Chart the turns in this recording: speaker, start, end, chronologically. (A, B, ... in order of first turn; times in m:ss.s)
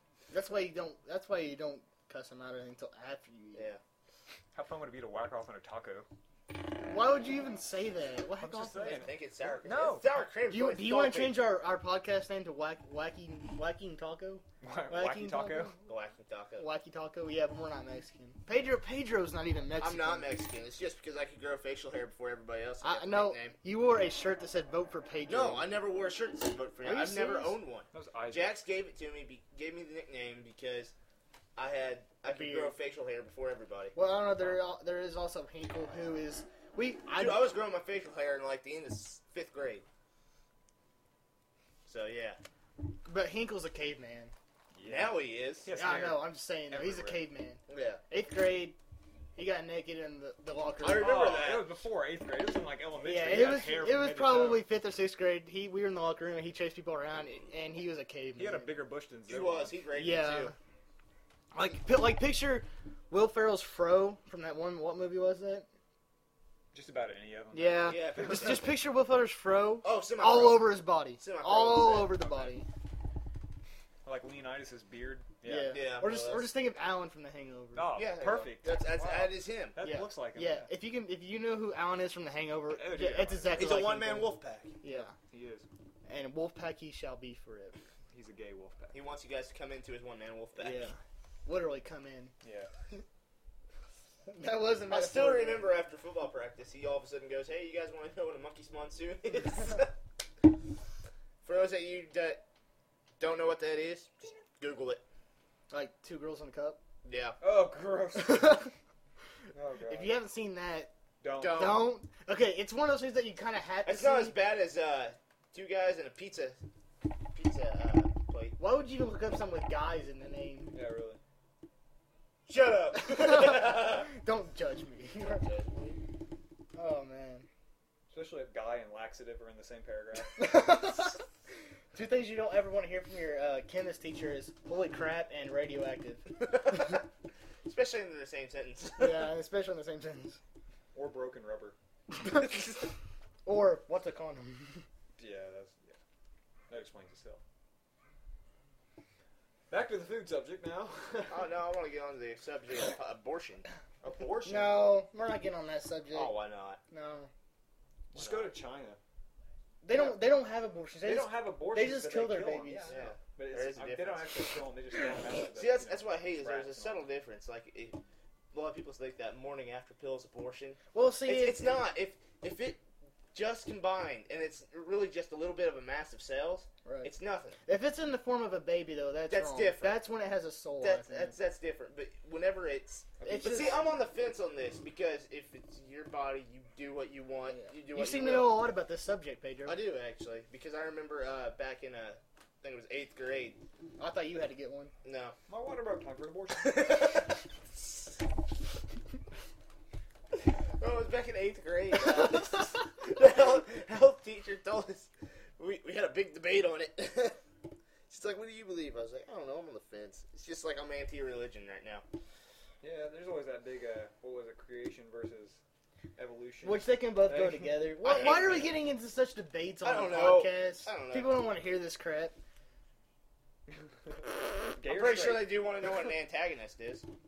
0:00.3-0:03.7 A
0:03.6-0:03.8 B
0:04.5-0:06.1 C
0:06.5-0:09.1 A
0:08.4-0:10.1 C
0:08.8-0:11.5 B
0:10.5-0:15.8 A
0:14.6-0:15.8 C
0:15.9-0:16.7 B
0:16.6-0:20.3 A
0:19.8-0:23.6 B
0:22.8-0:25.7 A
0:25.3-0:30.9 B
0:26.8-0:27.6 A
0:27.9-0:28.6 C
0:31.6-0:34.0 B
0:32.2-0:32.8 A
0:34.0-0:37.5 A
0:37.2-0:39.8 B
0:41.9-0:42.4 B
0:43.1-0:44.3 A
0:44.7-0:47.3 C
0:44.8-0:45.7 B
0:45.8-0:48.8 A
0:47.7-0:48.0 B
0:49.4-0:51.4 A
0:50.8-0:51.8 B
0:50.9-0:54.7 C
0:53.0-0:58.7 A
0:58.4-0:59.8 C
0:59.3-1:00.5 B
1:00.0-1:00.6 A
1:01.5-1:05.7 A
1:06.7-1:08.7 C
1:07.5-1:12.7 A
1:07.8-1:08.8 B
1:09.8-1:12.3 B
1:12.2-1:12.6 C
1:14.0-1:16.0 C
1:15.4-1:18.0 A
1:15.7-1:16.6 B
1:17.7-1:20.7 C
1:17.9-1:19.8 B
1:19.8-1:25.1 A
1:22.7-1:23.9 C
1:23.6-1:24.8 B
1:24.9-1:25.7 C
1:26.1-1:27.8 A
1:28.1-1:29.0 C
1:28.9-1:30.9 B
1:30.6-1:32.3 A
1:32.4-1:32.7 C
1:34.3-1:35.7 A
1:34.9-1:39.9 B
1:41.4-1:42.4 B
1:43.2-1:45.0 B
1:45.7-1:46.8 A
1:47.0-1:47.4 B
1:47.4-1:48.7 C
1:48.1-1:48.7 A
1:49.5-1:50.2 C
1:49.9-1:50.9 A
1:51.2-1:51.8 C
1:51.4-1:51.9 B
1:51.5-1:54.4 A
1:53.8-1:56.6 B
1:57.3-1:58.6 B
1:58.6-2:00.8 A
2:00.7-2:01.2 C
2:02.5-2:04.1 B
2:03.0-2:05.4 A
2:05.2-2:06.0 B
2:06.8-2:07.5 A
2:08.1-2:10.9 C
2:10.4-2:11.2 A
2:11.9-2:16.3 A
2:16.4-2:17.0 B
2:17.7-2:19.4 B
2:19.0-2:20.4 A
2:20.9-2:21.8 C
2:22.1-2:22.8 A
2:23.4-2:24.8 A
2:25.2-2:26.0 C
2:26.7-2:27.4 C
2:29.7-2:31.5 C
2:31.3-2:34.5 B
2:34.0-2:35.0 C
2:34.4-2:37.3 A
2:36.1-2:36.8 B
2:38.1-2:39.0 C
2:38.2-2:38.5 B
2:39.8-2:43.0 A
2:39.9-2:40.3 C
2:41.0-2:47.1 C
2:42.9-2:44.5 B
2:45.5-2:48.0 B
2:48.5-2:52.8 B
2:50.9-2:51.9 A
2:53.3-2:57.6 B
2:56.8-2:57.1 A
2:57.6-3:01.4 A
2:59.3-3:00.0 B
3:00.8-3:08.7 B
3:03.2-3:03.8 C
3:03.2-3:03.8 A
3:07.5-3:09.8 A
3:09.6-3:13.6 B
3:14.0-3:14.9 A
3:15.0-3:15.4 B
3:15.5-3:17.2 C
3:16.6-3:17.4 B
3:20.4-3:27.4 B
3:28.1-3:32.0 B
3:32.8-3:35.6 C
3:36.2-3:38.7 C
3:36.6-3:42.4 A
3:38.0-3:38.7 B
3:39.8-3:41.5 B
3:44.6-3:45.7 C
3:44.8-3:47.1 B